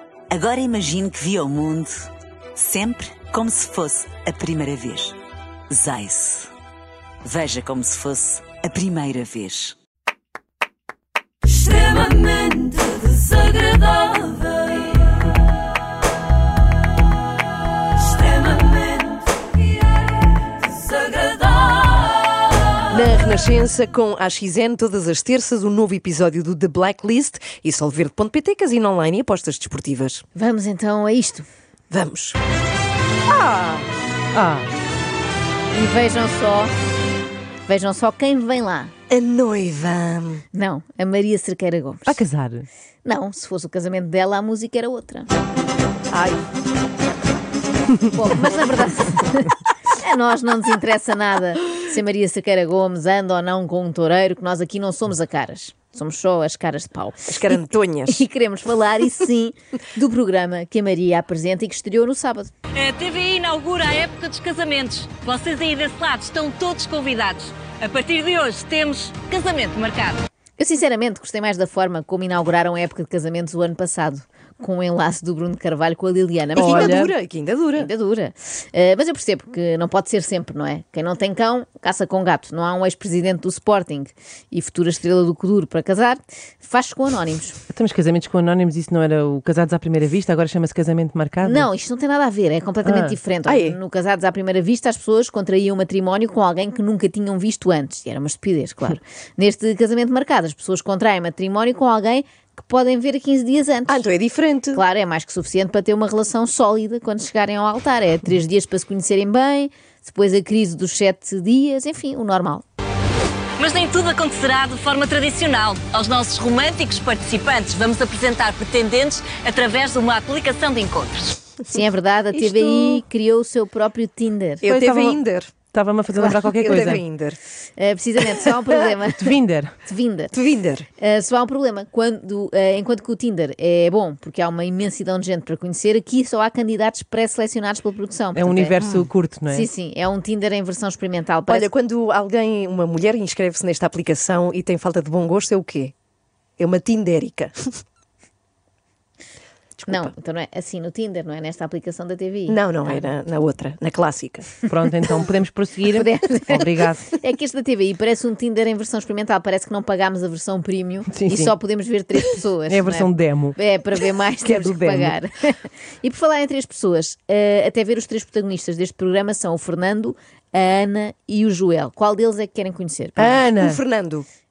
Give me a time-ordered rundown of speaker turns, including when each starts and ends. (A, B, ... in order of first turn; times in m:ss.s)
0:00.3-0:05.2 A
0:05.7-0:06.5 A
0:07.2-0:09.8 A
0:22.9-0:30.2 B
0:30.3-0:31.5 C
0:31.9-0:32.4 B
0:33.3-0:33.9 B
0:34.3-0:34.7 D
0:35.7-0:36.7 C
0:37.7-0:38.9 C
0:39.1-0:40.4 B
0:40.5-0:42.2 C
0:42.1-0:42.7 D
0:43.0-0:45.3 C
0:46.1-0:46.4 B
0:48.1-1:02.5 C
0:57.3-0:58.2 B
1:02.8-1:10.2 E
1:10.6-1:17.1 C
1:16.5-1:17.9 B
1:16.6-1:17.1 D
1:17.8-1:27.6 C
1:27.7-1:31.7 D
1:31.4-1:44.1 C
1:32.8-1:33.2 D
1:33.5-1:33.8 B
1:43.9-1:44.8 B
1:44.7-1:52.6 C
1:53.6-2:01.4 E
2:01.7-2:04.6 C
2:02.4-2:02.7 B
2:04.6-2:05.5 B
2:04.6-2:07.0 D
2:06.1-2:07.4 B
2:07.8-2:10.3 C
2:09.2-2:09.7 D
2:10.3-2:10.9 B
2:11.0-2:18.8 C
2:18.3-2:19.7 D
2:19.5-2:21.7 C
2:21.5-2:25.9 B
2:26.6-2:27.8 B
2:29.8-2:30.1 B
2:29.9-2:33.1 C
2:32.5-2:34.5 B
2:34.7-2:37.1 D
2:35.9-2:53.4 C
2:41.1-2:41.5 D
2:42.7-2:43.6 D
2:44.4-2:45.1 D
2:53.2-2:54.2 B
2:53.3-2:53.8 D